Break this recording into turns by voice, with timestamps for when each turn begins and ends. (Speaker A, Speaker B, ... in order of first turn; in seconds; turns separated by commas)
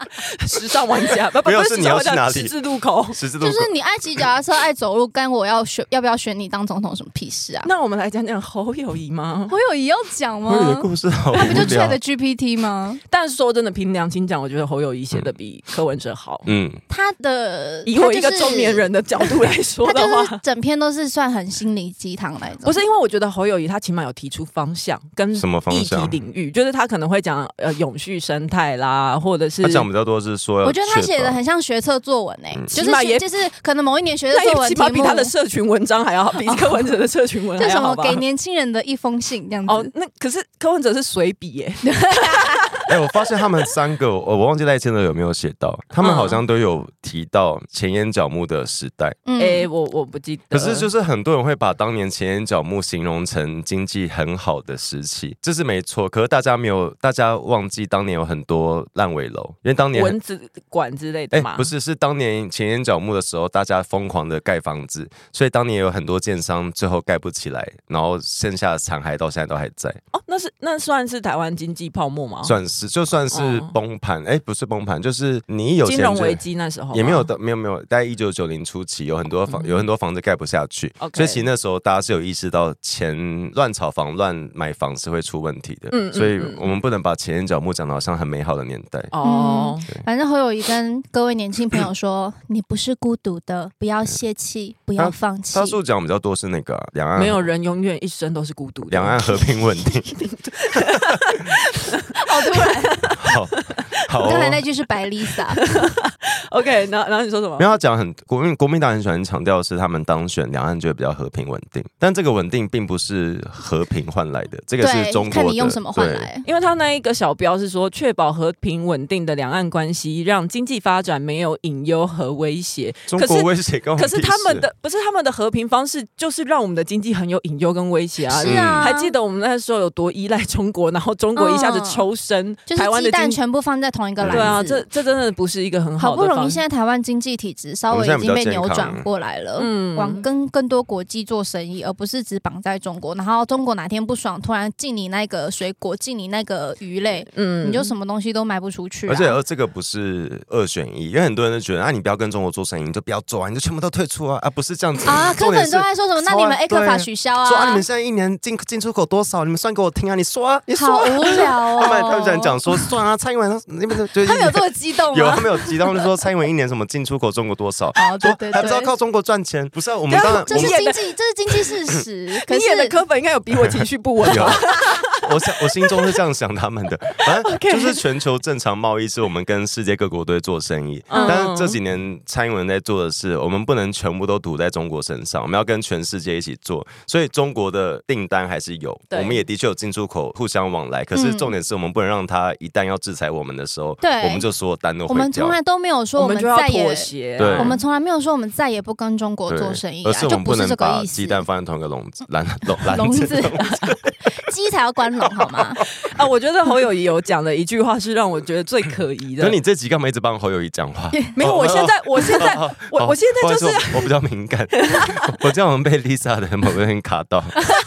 Speaker A: 0.3-3.2, Speaker B: 1.4-2.5, Speaker B: 3.1-3.7, Speaker C: 3.4-7.7, Speaker A: 7.6-9.6, Speaker C: 9.5-13.0, Speaker B: 10.5-12.0, Speaker A: 11.4-11.7, Speaker A: 13.1-16.5, Speaker B: 16.5-16.8, Speaker C: 16.9-18.9, Speaker A: 17.9-20.4, Speaker C: 19.8-22.8, Speaker A: 22.6-29.9, Speaker B: 25.3-26.2, Speaker B: 29.6-31.4, Speaker C: 30.6-35.3, Speaker A: 32.7-33.3, Speaker A: 34.3-38.2, Speaker C: 36.5-36.9, Speaker C: 37.6-39.9, Speaker A: 39.7-41.9, Speaker C: 41.9-42.7, Speaker B: 42.9-49.2, Speaker A: 46.0-46.4, Speaker C: 49.3-49.7, Speaker A: 49.4-50.9, Speaker B: 50.5-60.2, Speaker A: 59.9-61.7, Speaker B: 61.3-70.0, Speaker A: 70.1-72.6, Speaker B: 72.4-89.1, Speaker A: 73.3-73.7, Speaker A: 75.8-77.3, Speaker A: 79.5-79.8, Speaker A: 81.0-81.5, Speaker A: 85.9-86.7, Speaker A: 89.1-89.9, Speaker C: 89.2-95.8, Speaker B: 95.0-97.5, Speaker A: 97.2-103.8, Speaker B: 98.9-100.2, Speaker C: 102.2-103.1, Speaker B: 103.1-104.6, Speaker C: 104.2-105.6, Speaker A: 105.6-107.7, Speaker B: 107.6-116.3, Speaker C: 114.8-116.5, Speaker A: 116.5-133.4, Speaker B: 123.1-124.7, Speaker C: 128.3-129.1, Speaker B: 128.4-128.9, Speaker C: 131.4-132.0, Speaker C: 132.7-134.8, Speaker B: 134.2-134.6, Speaker A: 134.3-136.6, Speaker C: 136.0-149.4, Speaker B: 137.9-139.1, Speaker A: 139.6-140.3, Speaker A: 147.3-147.9, Speaker B: 149.1-170.8, Speaker C: 155.0-157.8, Speaker C: 160.7-162.8, Speaker C: 164.2-166.1, Speaker C: 167.9-168.9, Speaker A: 170.1-171.7, Speaker C: 170.1-173.0, Speaker A: 172.3-175.0, Speaker B: 174.3-174.6, Speaker B: 175.1-195.6, Speaker A: 177.4-178.0, Speaker A: 181.1-181.8, Speaker C: 181.1-181.4, Speaker A: 189.1-189.4, Speaker C: 191.1-191.6, Speaker C: 194.0-194.5, Speaker C: 195.1-201.5, Speaker A: 196.2-197.8, Speaker B: 197.4-197.8, Speaker B: 199.5-204.4, Speaker C: 202.9-203.6, Speaker C: 204.3-205.8, Speaker B: 205.4-205.8, Speaker A: 206.0-209.6, Speaker B: 209.4-217.6, Speaker C: 211.1-211.4, Speaker A: 211.4-214.1, Speaker A: 214.8-215.2